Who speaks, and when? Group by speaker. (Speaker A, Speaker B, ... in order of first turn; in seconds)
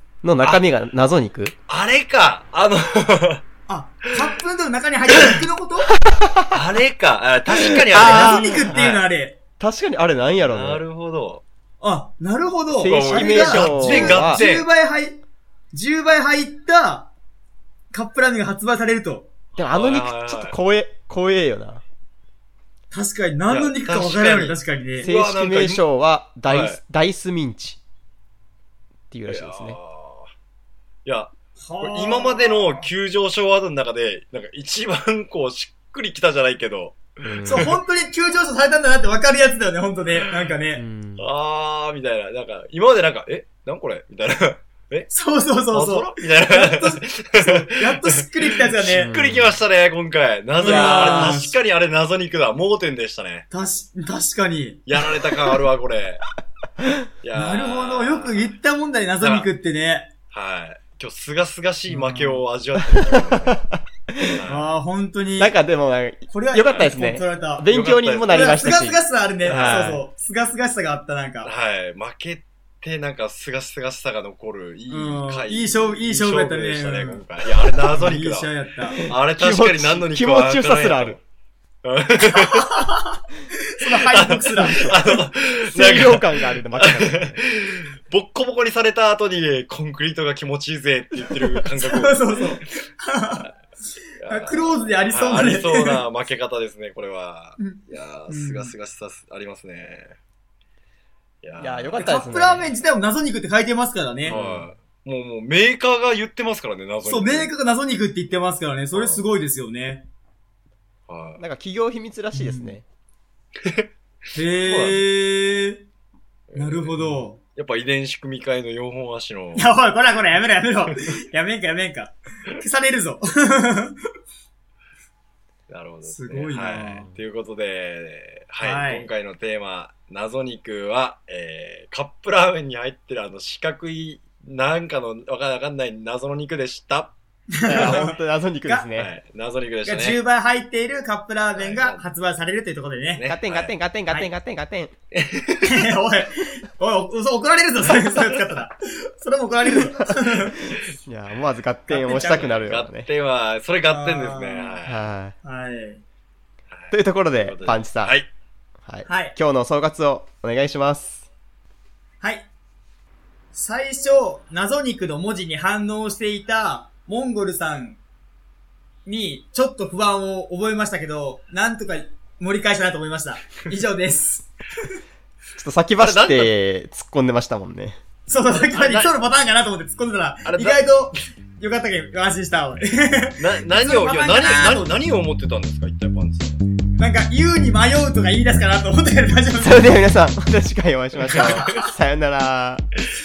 Speaker A: 0.2-1.6, 6.1-6.5, 7.5-9.0, 9.6-10.8, 12.7-14.4, 19.6-21.8, 25.0-27.8, 29.1-29.8, 37.2-37.8, 40.7-41.2, 48.8-49.6, 50.6-51.4, 62.9-64.3, 65.4-70.0, 78.9-81.2, 84.6-85.0, 85.7-87.4, 101.6-102.7, 104.3-104.7, 111.4-112.8, 137.7-139.1, 143.3-144.9, 150.7-153.1, 154.8-155.3, 156.9-158.2, 158.9-161.2, 175.6-178.0, 189.6-192.8
Speaker B: 0.4-0.7, 1.7-3.4, 5.1-5.4, 6.5-8.8, 10.4-11.4, 12.9-14.7, 19.6-20.6, 23.5-25.8, 26.5-26.8, 29.3-30.3, 31.1-37.7, 40.2-40.5, 41.2-45.1, 45.7-53.5, 54.9-56.2, 57.2-58.5, 59.2-59.5, 60.3-63.7, 64.3-64.7, 67.7-68.7, 69.4-69.9, 71.4-81.2, 81.8-82.9, 83.9-92.6, 94.2-100.2, 101.4-102.0, 104.2-107.5, 108.9-109.2, 111.1-111.4, 114.6-115.1, 116.5-117.0, 117.5-119.7, 125.7-137.1, 137.7-138.1, 138.9-140.2, 141.6-142.0, 143.1-143.8, 145.2-145.8, 147.9-148.6, 152.3-155.1, 156.7-158.3, 176.0-176.5, 178.5-179.2, 180.4-180.8, 183.4-186.6, 191.3-191.7
Speaker C: 3.7-6.0, 7.9-9.4, 11.8-15.2, 15.7-17.1, 17.9-19.3, 22.9-25.1, 31.6-32.9, 37.5-40.8, 45.1-49.1, 50.6-51.5, 53.5-54.8, 57.3-60.1, 61.9-62.5, 64.5-65.6, 66.3-67.7, 68.3-71.5, 74.9-77.3, 77.8-79.0, 82.3-83.2, 83.7-84.9, 91.8-93.5, 94.2-96.0, 97.6-98.7, 102.0-104.4, 107.0-110.1, 112.3-112.8, 114.3-115.8, 116.6-117.4, 119.5-124.0, 126.0-127.1, 128.6-129.1, 137.5-138.9, 139.8-143.3, 145.6-150.8, 151.9-152.6, 153.9-154.8, 155.4-156.0, 159.1-159.4, 162.2-162.5, 163.5-168.0, 169.1-174.9, 178.3-185.0, 187.0-190.0, 191.4-191.8